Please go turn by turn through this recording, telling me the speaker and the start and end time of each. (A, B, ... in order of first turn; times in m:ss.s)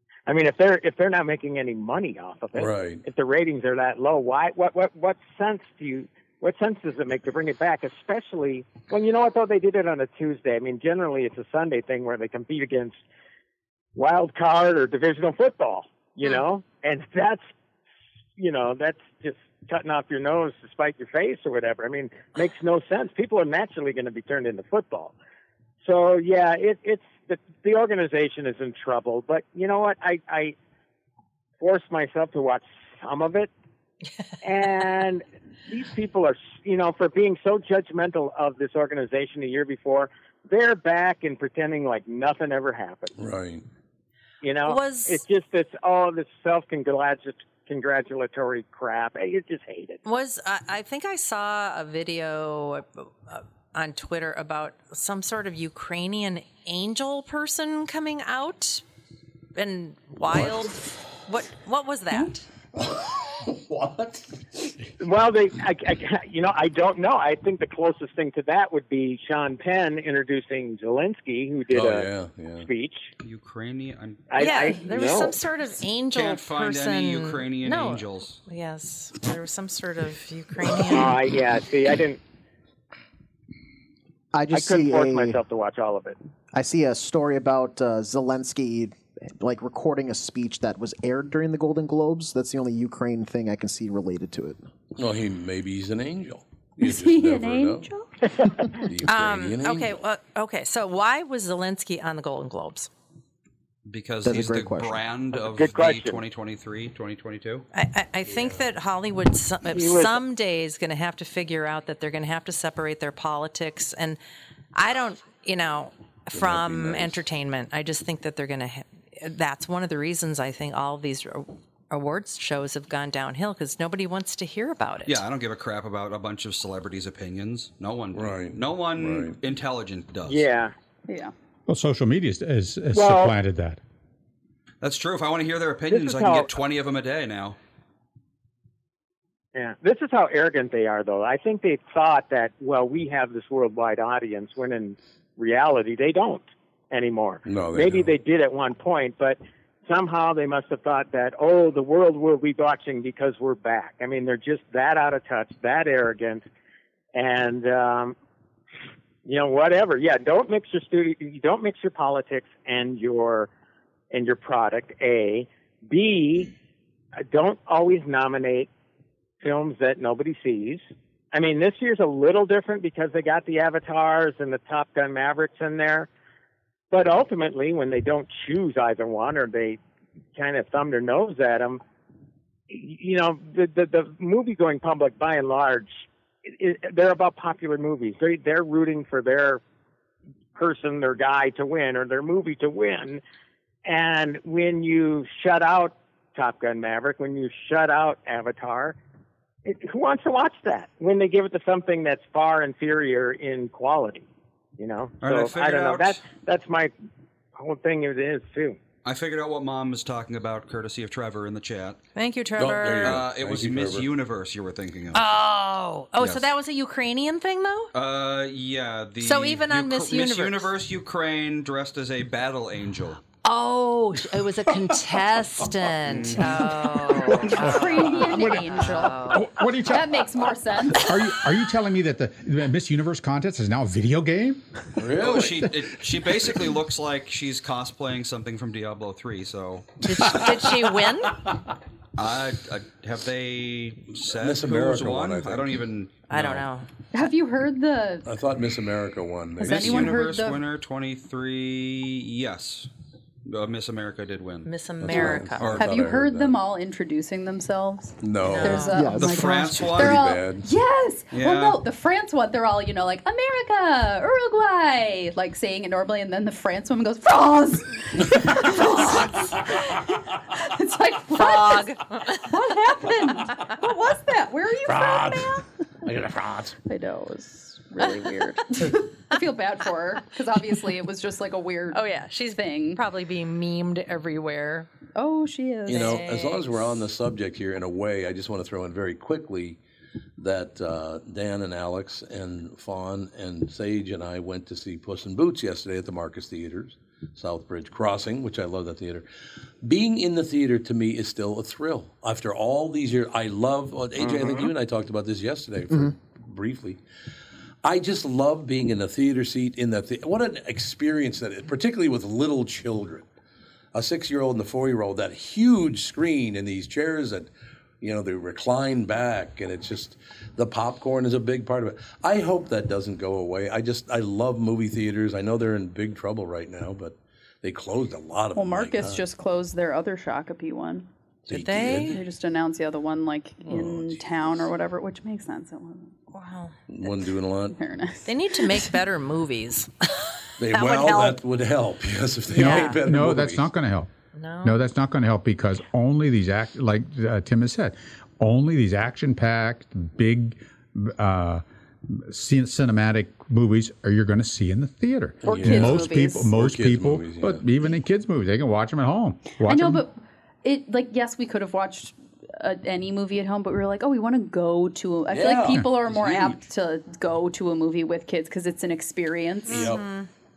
0:00.3-0:13.0 A
0:02.6-0:03.0 B
0:14.0-0:17.5 A
0:18.4-0:25.2 A
0:25.8-0:30.6 A
0:31.6-0:33.5 A
0:34.4-0:43.1 A
0:43.2-0:43.6 B
0:44.4-0:50.0 A
0:44.6-0:45.2 C
0:50.0-0:58.8 C
0:59.6-1:02.4 C
1:02.8-1:04.4 B
1:05.0-1:13.0 A
1:11.7-1:12.7 B
1:13.2-1:14.2 D
1:14.3-1:15.3 A
1:14.4-1:21.2 C
1:16.1-1:18.4 D
1:20.9-1:22.2 A
1:24.3-1:25.4 E
1:24.5-1:26.2 A
1:26.5-1:34.6 E
1:35.0-1:37.9 B
1:36.8-1:38.7 F
1:38.8-1:40.0 B
1:39.0-1:42.9 C
1:43.9-1:47.7 D
1:44.2-1:45.0 E
1:45.4-1:46.2 A
1:47.7-1:54.2 C
1:49.7-1:50.2 A
1:54.8-2:05.2 C
1:56.4-1:57.2 B
2:05.1-2:10.5 D
2:08.2-2:09.4 B
2:10.3-2:10.7 A
2:11.1-2:11.3 F
2:11.7-2:13.8 G
2:12.9-2:13.4 A
2:14.8-2:17.6 D
2:15.9-2:16.5 A
2:19.6-2:36.4 A
2:27.5-2:28.1 B
2:37.1-2:38.2 A
2:39.2-2:43.5 A
2:44.1-2:46.5 A
2:47.2-2:48.7 A
2:49.4-2:56.1 A
2:56.9-2:59.8 A
3:00.4-3:01.8 A
3:02.7-3:09.6 A
3:10.6-3:13.2 A
3:13.8-3:19.0 A
3:19.6-3:24.3 A
3:24.8-3:26.9 A
3:25.2-3:26.2 D
3:27.6-3:28.8 A
3:29.0-3:32.0 D
3:32.2-3:33.2 C
3:32.6-3:34.1 B
3:33.0-3:35.2 D
3:35.1-3:37.9 C
3:36.2-3:36.5 D
3:37.9-3:43.2 D
3:39.2-3:40.7 C
3:43.4-3:49.4 C
3:46.1-3:46.5 D
3:46.1-3:46.4 B
3:47.3-3:51.1 F
3:47.4-3:50.2 G
3:50.9-3:54.6 G
3:55.0-3:55.8 B
3:55.2-3:59.9 D
4:00.0-4:01.4 C
4:00.3-4:00.6 B
4:02.2-4:06.7 D
4:04.2-4:05.8 B
4:06.3-4:06.9 C
4:07.1-4:08.3 F
4:08.2-4:10.2 B
4:09.6-4:10.6 F
4:09.6-4:12.9 D
4:13.4-4:14.7 D
4:14.6-4:15.8 C
4:15.0-4:16.6 B
4:15.6-4:15.9 D
4:15.8-4:30.0 F
4:18.2-4:18.9 B
4:18.4-4:19.0 C
4:18.9-4:19.3 E
4:19.1-4:20.2 D
4:20.0-4:20.7 B
4:21.3-4:21.8 D
4:30.6-4:35.7 F
4:31.3-4:32.4 C
4:34.8-4:36.8 B
4:36.9-4:43.0 F
4:41.9-4:44.9 C
4:45.2-4:46.2 F
4:45.9-4:49.8 B
4:45.9-4:46.6 C
4:50.4-4:59.3 B
4:59.8-5:07.0 B
5:04.2-5:04.7 A
5:07.8-5:13.3 B
5:13.9-5:17.5 B
5:18.0-5:29.2 B
5:28.6-5:31.1 F
5:31.5-5:32.2 B
5:31.5-5:32.2 C
5:32.1-5:36.1 F
5:33.6-5:34.6 B
5:36.3-5:36.7 C
5:36.9-5:37.8 B
5:37.7-5:38.9 F
5:38.3-5:41.4 C
5:40.6-5:43.7 B
5:42.5-5:44.1 G
5:42.6-5:43.0 C
5:44.4-5:44.8 C
5:44.6-6:00.0 G
5:55.4-5:57.6 B
5:55.5-5:56.6 F
5:59.6-6:09.9 F
6:05.3-6:06.6 B
6:09.7-6:10.3 C
6:09.7-6:10.0 B